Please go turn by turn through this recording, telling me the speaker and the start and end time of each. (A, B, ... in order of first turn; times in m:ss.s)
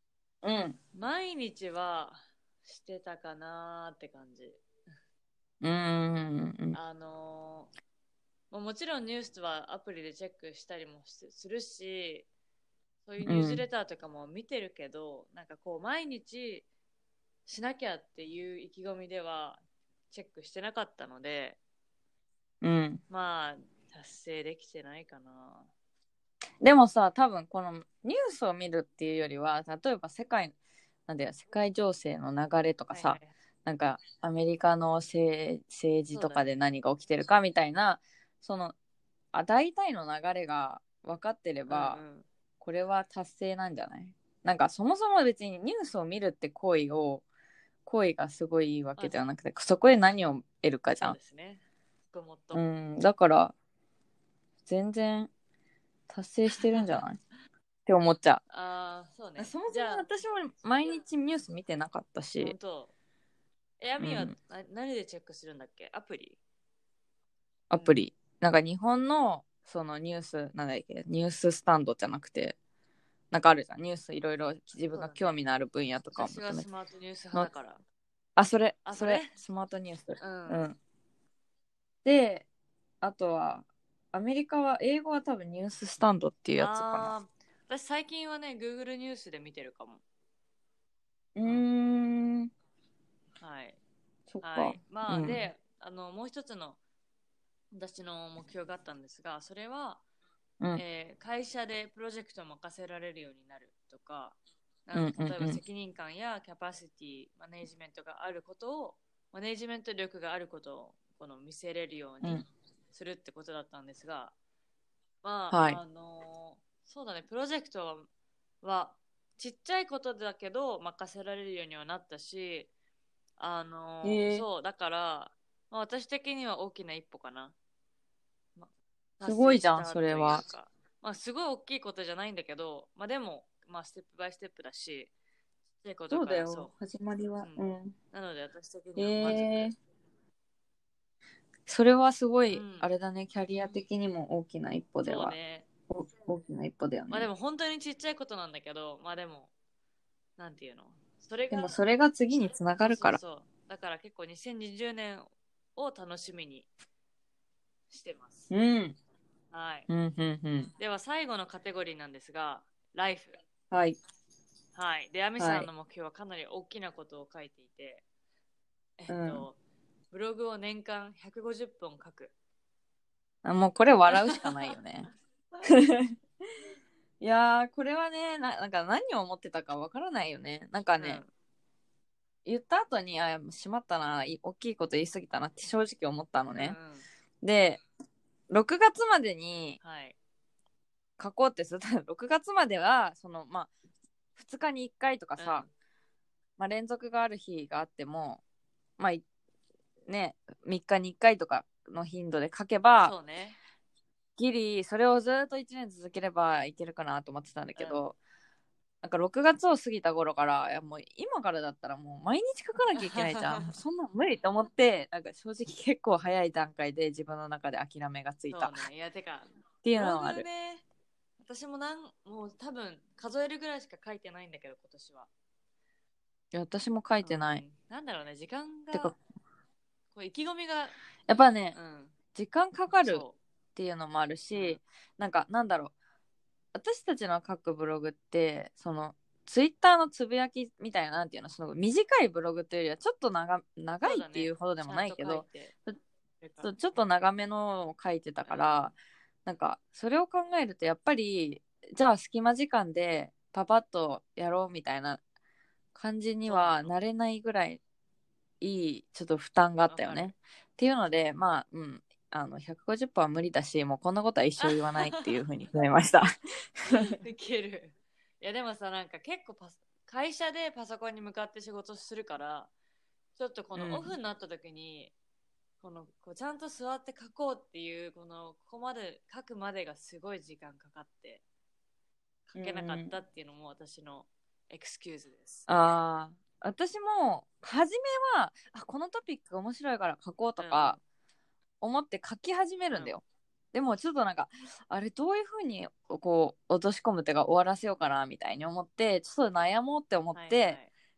0:00.4-0:00.8 A
0:00.9-0:04.6 B
0:05.6-0:06.8 A
0:06.7-0:07.7 B
0:08.5-0:12.3 B
0:13.0-0:16.6 B
0:13.2-0:13.6 A
0:17.4-0:21.6 B
0:22.6-0:23.0 A
0:23.1-0:25.7 B
0:26.6-0:30.5 A
0:31.1-0:38.7 A
0:32.9-0:33.3 B
0:36.1-0:36.4 B
0:39.3-0:42.0 A
0:41.7-0:42.3 B
0:42.6-0:47.2 A
0:47.8-0:51.2 A
0:51.0-0:52.6 B
0:52.5-0:53.5 A
0:54.6-0:55.3 A
0:56.1-0:57.2 A
0:56.6-0:56.9 B
0:57.8-0:58.4 A
0:58.5-1:00.1 B
0:59.4-1:02.6 A
1:02.4-1:02.9 B
1:03.8-1:06.4 B
1:04.0-1:04.3 A
1:07.7-1:12.6 A
1:13.3-1:16.6 A
1:14.9-1:15.3 B
1:16.1-1:17.8 B
1:18.4-1:20.8 A
1:18.8-1:19.4 B
1:20.2-1:20.7 B
1:22.0-1:22.4 A
1:23.0-1:27.1 A
1:26.6-1:30.0 B
1:31.3-1:32.5 A
1:33.4-1:33.8 B
1:34.3-1:35.5 A
1:34.4-1:36.8 B
1:37.7-1:40.0 B
1:40.7-1:54.3 B
1:44.9-1:45.6 A
1:55.2-1:58.1 B
1:55.5-1:55.8 A
1:58.6-2:02.7 B
2:03.4-2:07.5 B
2:04.0-2:04.4 A
2:08.6-2:15.1 B
2:09.2-2:10.4 A
2:15.8-2:16.7 B
2:16.1-2:17.9 A
2:17.4-2:19.7 B
2:19.0-2:19.7 A
2:21.7-2:25.3 A
2:22.5-2:22.9 B
2:25.0-2:25.7 B
2:25.9-2:27.3 A
2:27.1-2:29.5 B
2:30.4-2:31.8 B
2:31.5-2:33.2 A
2:32.8-2:36.7 B
2:37.9-2:38.5 B
2:38.5-2:39.0 A
2:39.5-2:39.9 B
2:39.9-2:40.7 A
2:40.8-2:43.4 B
2:43.7-2:44.0 A
2:44.7-2:48.0 B
2:45.4-2:45.7 A
2:49.0-2:49.6 B
2:49.1-2:49.4 A
2:50.1-2:52.3 B
2:53.4-2:55.1 A
2:54.1-2:54.7 B
2:55.6-2:56.1 A
2:57.2-3:01.2 A
3:01.0-3:01.3 B
3:02.4-3:06.8 A
3:06.6-3:07.1 B
3:07.4-3:07.8 A
3:08.5-3:09.8 A
3:09.8-3:10.2 B
3:11.2-3:13.7 A
3:14.4-3:15.6 A
3:15.4-3:15.7 B
3:16.6-3:18.4 A
3:20.1-3:23.1 A
3:23.0-3:23.6 B
3:24.4-3:28.2 A
3:27.8-3:28.1 B
3:29.0-3:38.8 A
3:32.9-3:33.7 B
3:38.5-3:40.8 B
3:39.8-3:40.4 A
3:41.4-3:45.3 B
3:46.5-3:47.6 A
3:47.2-3:49.1 B
3:48.9-3:49.2 A
3:50.1-3:51.0 B
3:51.3-3:51.8 A
3:51.7-3:52.1 B
3:52.3-3:55.9 A
3:52.9-3:53.4 B
3:54.5-3:54.8 B
3:56.7-4:06.0 A
4:04.0-4:05.7 B
4:06.4-4:06.7 B
4:06.6-4:15.2 A
4:08.4-4:08.9 B
4:15.9-4:17.8 A
4:16.4-4:16.9 B
4:18.6-4:27.1 A
4:19.9-4:20.3 B
4:24.6-4:25.4 B
4:26.9-4:32.7 B
4:33.4-4:35.1 B
4:33.8-4:34.1 A
4:35.8-4:41.4 B
4:42.5-4:45.7 B
4:42.6-4:43.1 A
4:45.7-4:51.0 A
4:50.6-4:51.0 B
4:51.8-5:00.8 A
5:00.3-5:00.9 B